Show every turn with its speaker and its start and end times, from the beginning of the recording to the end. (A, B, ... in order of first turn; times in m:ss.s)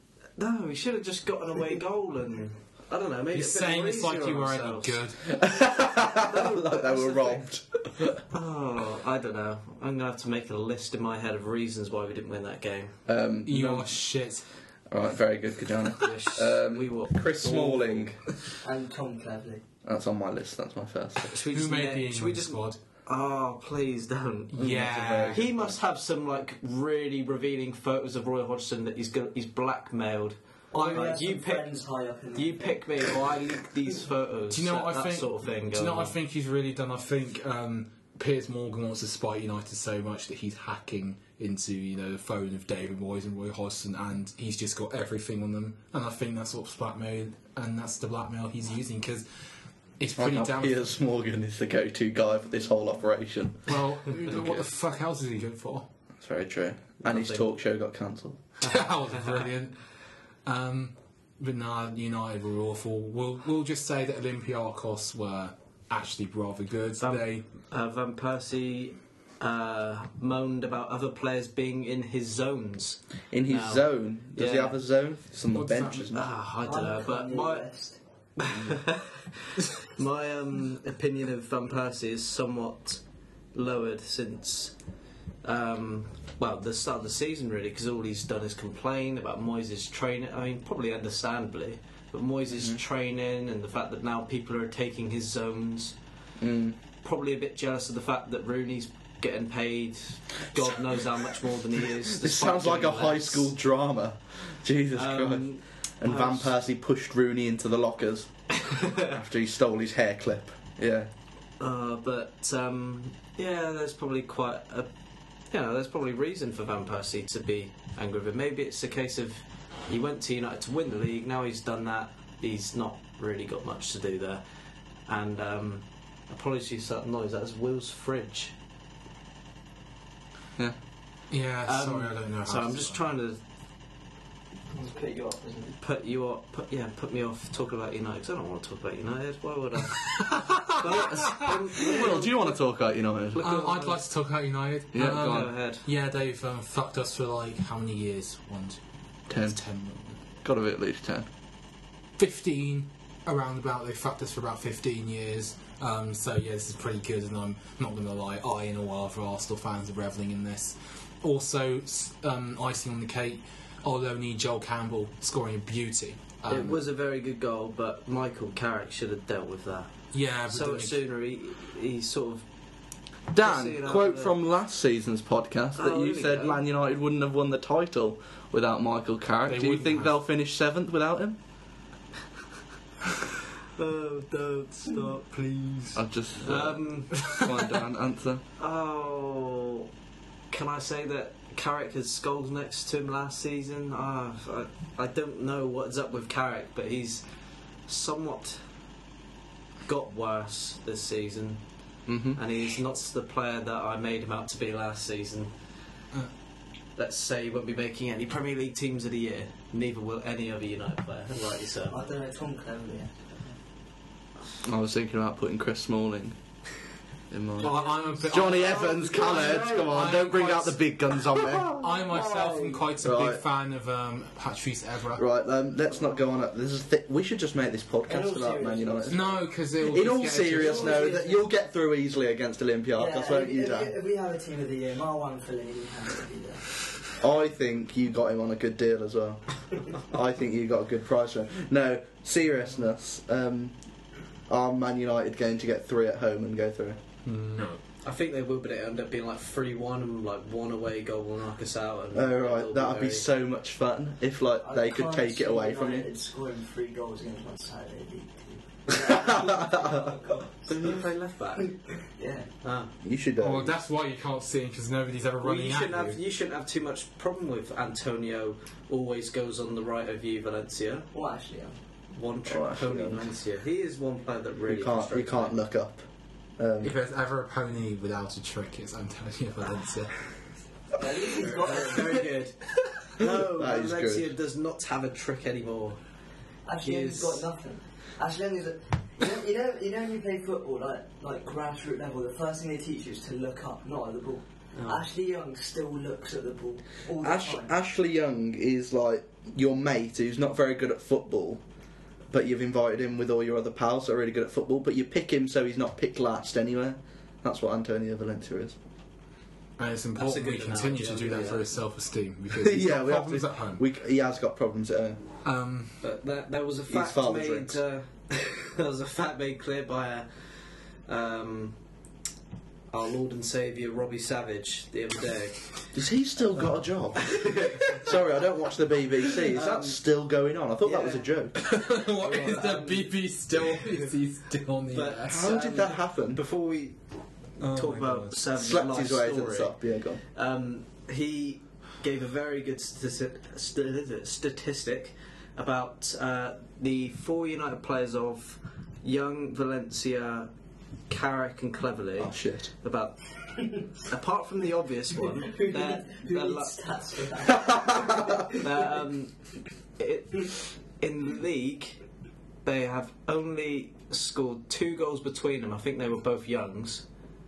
0:00.4-0:05.1 A
0:03.3-0:05.4 B
0:05.2-0:08.2 C
0:05.9-0:07.4 A
0:08.3-0:13.0 A
0:13.1-0:14.0 C
0:13.4-0:14.4 B
0:14.9-0:18.2 C
0:16.0-0:18.2 A
0:18.6-0:19.6 D
0:19.8-0:21.3 C
0:21.3-0:31.7 A
0:21.4-0:22.8 B
0:24.5-0:25.4 B
0:24.5-0:25.8 C
0:30.7-0:33.0 D
0:30.8-0:31.1 B
0:32.3-0:36.2 A
0:34.5-0:49.2 B
0:50.0-0:50.8 B
0:50.2-0:54.6 C
0:53.7-0:55.9 B
0:56.2-0:58.4 C
0:57.0-0:57.5 A
0:58.6-0:59.8 B
1:00.4-1:07.4 B
1:07.0-1:14.8 A
1:13.3-1:16.3 C
1:15.5-1:16.1 B
1:16.1-1:17.6 A
1:16.6-1:18.0 D
1:18.4-1:23.0 A
1:18.5-1:18.7 C
1:23.5-1:24.7 A
1:25.4-1:36.0 A
1:32.5-1:32.8 C
1:36.4-1:36.8 C
1:37.0-1:43.5 A
1:42.1-1:51.1 C
1:44.9-1:46.5 A
1:48.6-1:49.1 A
1:51.6-1:54.9 A
1:55.5-2:04.4 A
2:05.1-2:08.5 A
2:11.3-2:13.0 B
2:11.6-2:13.4 A
2:14.7-2:15.8 D
2:15.8-2:22.6 A
2:20.2-2:21.5 B
2:21.1-2:23.4 C
2:23.3-2:24.0 A
2:23.4-2:30.2 B
2:24.9-2:25.5 C
2:25.2-2:25.8 A
2:29.3-2:29.6 C
2:30.4-2:31.3 C
2:32.2-2:46.7 B
2:46.5-2:52.4 A
2:50.1-2:51.0 B
2:53.3-3:01.4 C
2:53.4-2:54.3 A
2:55.8-2:56.6 A
2:59.4-3:00.1 B
3:03.8-3:07.4 A
3:05.9-3:08.4 C
3:08.6-3:09.9 A
3:10.5-3:17.2 A
3:17.8-3:18.6 A
3:19.8-3:21.6 A
3:22.1-3:22.4 C
3:22.3-3:25.5 A
3:27.0-3:31.9 A
3:31.9-3:33.6 D
3:34.6-3:36.4 C
3:37.3-3:42.0 C
3:37.6-3:38.5 D
3:37.6-3:45.2 B
3:42.4-3:42.7 A
3:43.0-3:43.4 C
3:45.2-3:53.9 C
3:48.1-3:49.4 D
3:49.1-3:51.2 B
3:50.5-3:51.4 D
3:50.6-3:51.2 A
3:52.9-3:56.6 D
3:57.2-4:03.8 C
4:04.5-4:07.0 C
4:07.2-4:07.8 B
4:08.0-4:13.2 A
4:12.1-4:16.1 C
4:14.6-4:21.0 D
4:20.6-4:21.7 A
4:22.0-4:22.5 D
4:22.6-4:22.9 A
4:23.0-4:23.8 C
4:23.4-4:26.2 B
4:25.4-4:31.1 A
4:31.1-4:31.8 D
4:32.1-4:35.6 A
4:32.4-4:33.3 C
4:34.7-4:36.0 C
4:36.6-4:36.9 C
4:36.8-4:40.3 B
4:41.0-4:42.2 D
4:41.3-4:46.0 A
4:43.2-4:44.3 C
4:46.6-4:57.7 D
4:46.8-4:47.4 A
4:54.8-4:55.0 A
4:57.2-5:01.6 C
5:02.3-5:08.8 C
5:09.8-5:13.8 B
5:10.2-5:11.7 A
5:12.5-5:15.2 C
5:15.4-5:16.0 B
5:16.0-5:20.5 A
5:16.9-5:17.8 C
5:21.1-5:21.8 A
5:22.9-5:25.9 A
5:25.9-5:31.6 C
5:27.1-5:28.2 A
5:29.2-5:30.0 A
5:30.8-5:34.1 A
5:31.6-5:35.6 B
5:34.9-5:37.0 A
5:35.2-5:36.4 C
5:37.6-5:38.4 B
5:37.6-5:50.5 A
5:38.5-5:40.2 C
5:51.1-5:56.7 A
5:52.2-5:52.7 C
5:53.6-5:53.9 D
5:55.4-5:58.8 D
5:57.6-5:58.2 C
5:58.5-5:59.4 A
6:00.0-6:02.0 A
6:02.6-6:07.0 A